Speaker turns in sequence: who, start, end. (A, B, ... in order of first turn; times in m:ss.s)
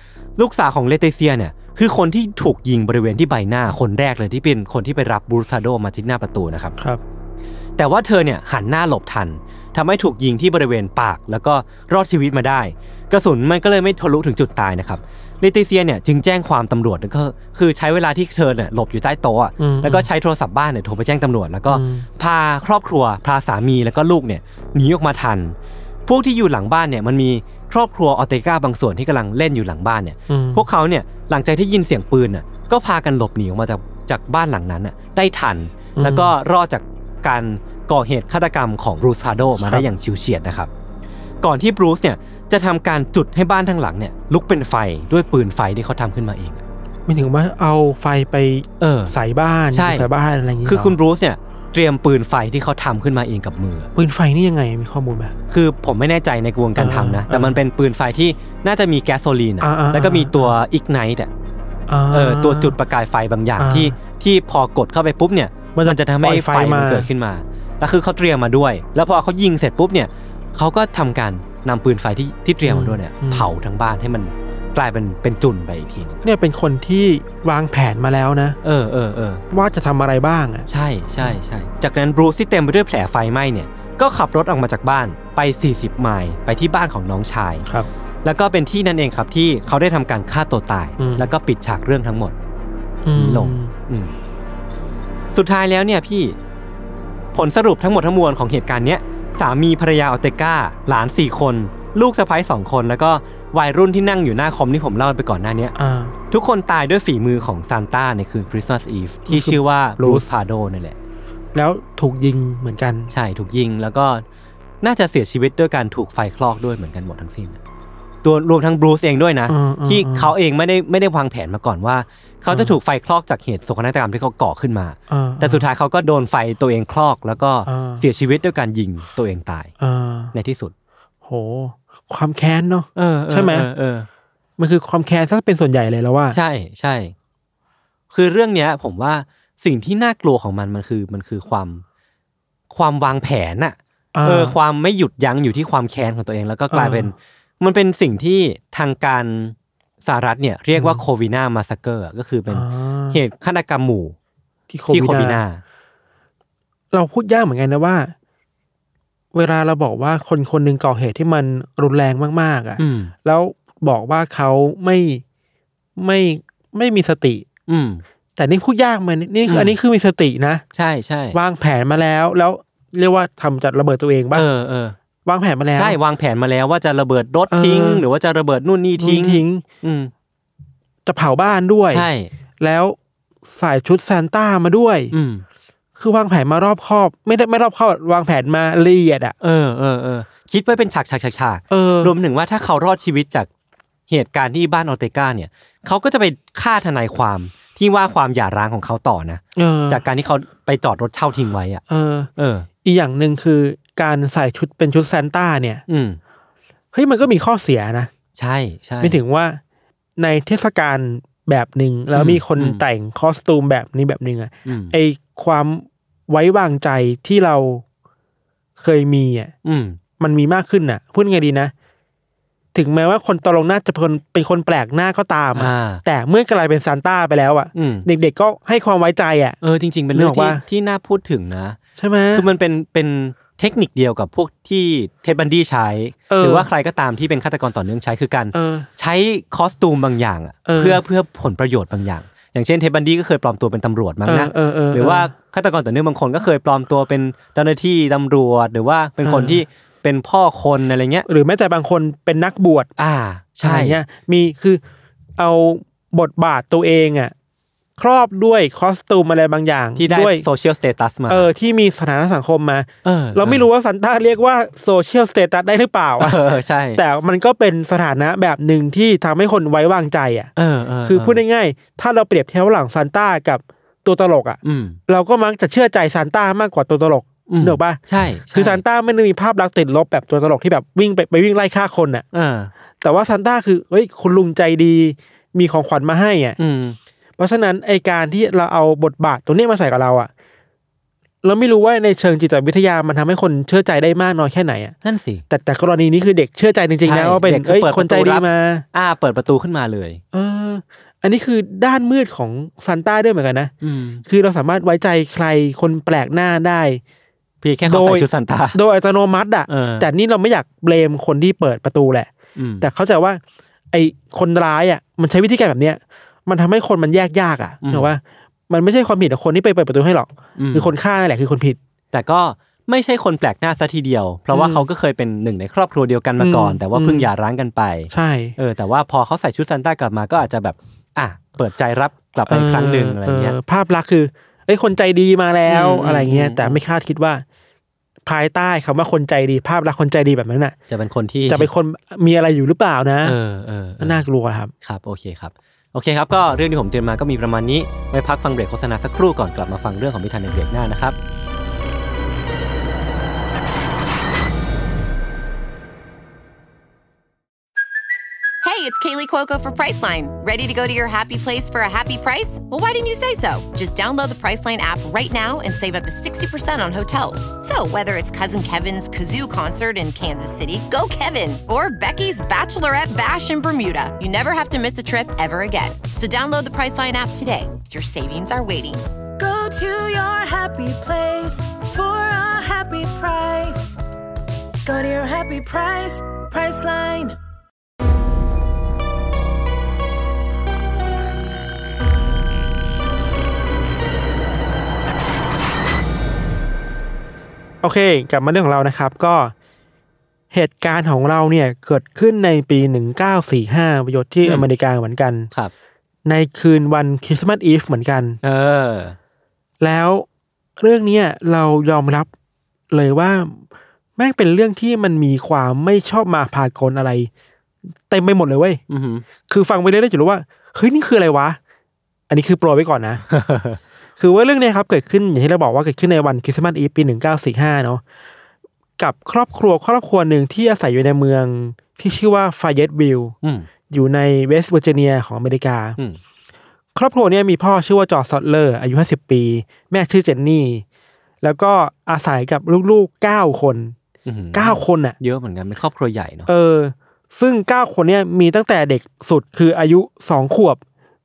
0:00.4-0:06.7 A
0:07.8-0:40.7 A
0:19.6-0:20.1 B
0:21.7-0:22.1 B
0:30.3-0:30.6 B
0:36.0-0:36.3 B
0:39.6-0:39.8 B
0:41.4-0:46.6 A
0:47.1-0:51.0 B
0:48.8-0:49.1 A
0:49.7-0:50.1 A
0:50.6-0:53.9 A
0:54.0-0:55.3 B
0:55.5-1:01.3 A
0:56.8-0:57.6 B
0:59.6-1:00.5 B
1:01.9-1:02.7 B
1:02.1-1:16.2 A
1:03.6-1:03.9 B
1:05.7-1:07.1 B
1:12.6-1:13.5 B
1:16.2-1:18.6 B
1:18.6-1:19.4 A
1:19.5-1:20.7 B
1:20.7-1:27.6 A
1:28.2-1:32.3 A
1:31.0-1:31.3 B
1:33.0-1:33.7 B
1:33.1-1:34.1 A
1:35.3-1:36.4 A
1:37.3-1:45.7 A
1:45.8-1:46.1 B
1:46.3-1:51.0 A
1:49.3-1:50.3 B
1:51.5-1:53.1 B
1:53.1-1:54.2 A
1:54.8-1:57.6 A
1:58.2-2:09.7 A
1:59.5-2:00.3 B
2:05.1-2:05.6 B
2:07.7-2:08.0 B
2:09.8-2:10.3 B
2:10.3-2:10.7 A
2:11.2-2:13.7 B
2:12.9-2:14.1 A
2:14.6-2:16.4 B
2:16.3-2:17.1 A
2:18.1-2:21.8 A
2:22.7-2:34.1 A
2:24.1-2:24.6 B
2:26.7-2:27.1 B
2:30.7-2:31.0 B
2:32.5-2:33.2 B
2:34.7-2:35.4 B
2:34.9-2:35.6 A
2:36.9-2:38.1 B
2:39.3-2:45.2 B
2:42.8-2:43.1 A
2:46.0-2:47.4 B
2:47.7-2:48.0 A
2:48.4-2:50.6 B
2:49.5-2:49.8 A
2:50.7-2:51.4 A
2:51.3-2:54.5 B
2:54.3-2:55.0 A
2:55.2-2:56.0 B
2:55.7-3:00.1 A
2:57.5-2:58.0 B
2:59.0-2:59.6 B
3:01.0-3:02.1 B
3:01.9-3:02.3 A
3:02.6-3:05.1 B
3:05.1-3:05.4 A
3:06.0-3:09.3 B
3:09.4-3:13.5 A
3:11.7-3:12.1 B
3:14.1-3:21.8 A
3:19.6-3:20.0 B
3:21.9-3:22.3 B
3:22.4-3:22.7 A
3:22.8-3:25.8 B
3:25.9-3:26.2 A
3:26.9-3:28.1 B
3:28.4-3:29.2 A
3:29.0-3:29.6 B
3:30.2-3:37.8 B
3:32.1-3:32.8 A
3:34.6-3:34.9 A
3:38.8-3:39.5 B
3:39.6-3:40.0 A
3:40.2-3:41.7 B
3:42.7-3:49.6 B
3:45.5-3:46.0 A
3:47.7-3:48.0 A
3:49.6-3:51.8 A
3:50.1-3:50.6 B
3:52.0-3:52.4 B
3:52.3-4:11.2 A
3:56.3-3:56.7 B
3:58.5-3:58.9 B
4:00.6-4:01.0 B
4:04.2-4:05.3 B
4:09.2-4:09.6 B
4:11.3-4:12.9 B
4:13.0-4:14.0 A
4:13.6-4:14.8 B
4:15.4-4:17.3 B
4:18.0-4:20.4 B
4:20.0-4:21.5 A
4:21.3-4:26.4 B
4:23.0-4:23.6 A
4:26.2-4:27.0 A
4:26.9-4:30.5 B
4:30.6-4:31.4 A
4:31.0-4:38.0 B
4:34.6-4:35.0 A
4:37.5-4:38.8 A
4:38.5-4:42.2 B
4:42.3-4:42.7 A
4:43.0-4:46.6 B
4:46.6-4:47.0 A
4:47.4-4:50.3 B
4:51.4-4:54.9 B
4:55.0-4:55.4 A
4:55.5-4:58.8 B
4:57.0-5:00.2 A
5:00.3-5:03.7 B
5:03.8-5:04.2 A
5:04.2-5:07.0 B
5:07.6-5:08.8 A
5:07.8-5:13.4 B
5:09.7-5:10.1 A
5:12.6-5:12.9 A
5:13.9-5:21.8 B
5:17.8-5:18.1 A
5:20.6-5:20.9 A
5:22.1-5:33.6 A
5:24.5-5:24.8 B
5:26.4-5:27.3 B
5:28.1-5:28.6 B
5:32.5-5:37.4 B
5:35.7-5:36.8 A
5:38.2-5:40.8 B
5:40.9-5:41.7 A
5:41.5-5:43.4 B
5:43.2-5:44.2 A
5:44.0-5:44.7 B
5:44.8-5:51.2 A
5:58.6-6:19.0 C
6:19.4-6:24.0 D
6:24.8-6:27.4 D
6:37.8-6:39.5 B
6:40.5-6:45.5 B
6:46.2-6:48.4 B
6:48.4-6:49.2 A
6:49.8-6:50.2 B
6:50.8-6:52.3 B
6:52.9-6:53.6 B
6:54.2-6:57.3 B
6:58.1-6:58.8 B
6:58.9-6:59.2 A
6:59.5-7:01.6 B
7:02.3-7:03.2 B
7:03.3-7:03.8 A
7:04.2-7:08.0 B
7:09.0-7:13.3 B
7:13.4-7:13.7 A
7:13.9-7:16.0 B
7:16.9-7:20.8 B
7:21.4-7:23.9 B
7:24.2-7:26.5 A
7:24.5-7:25.2 B
7:26.5-7:30.8 B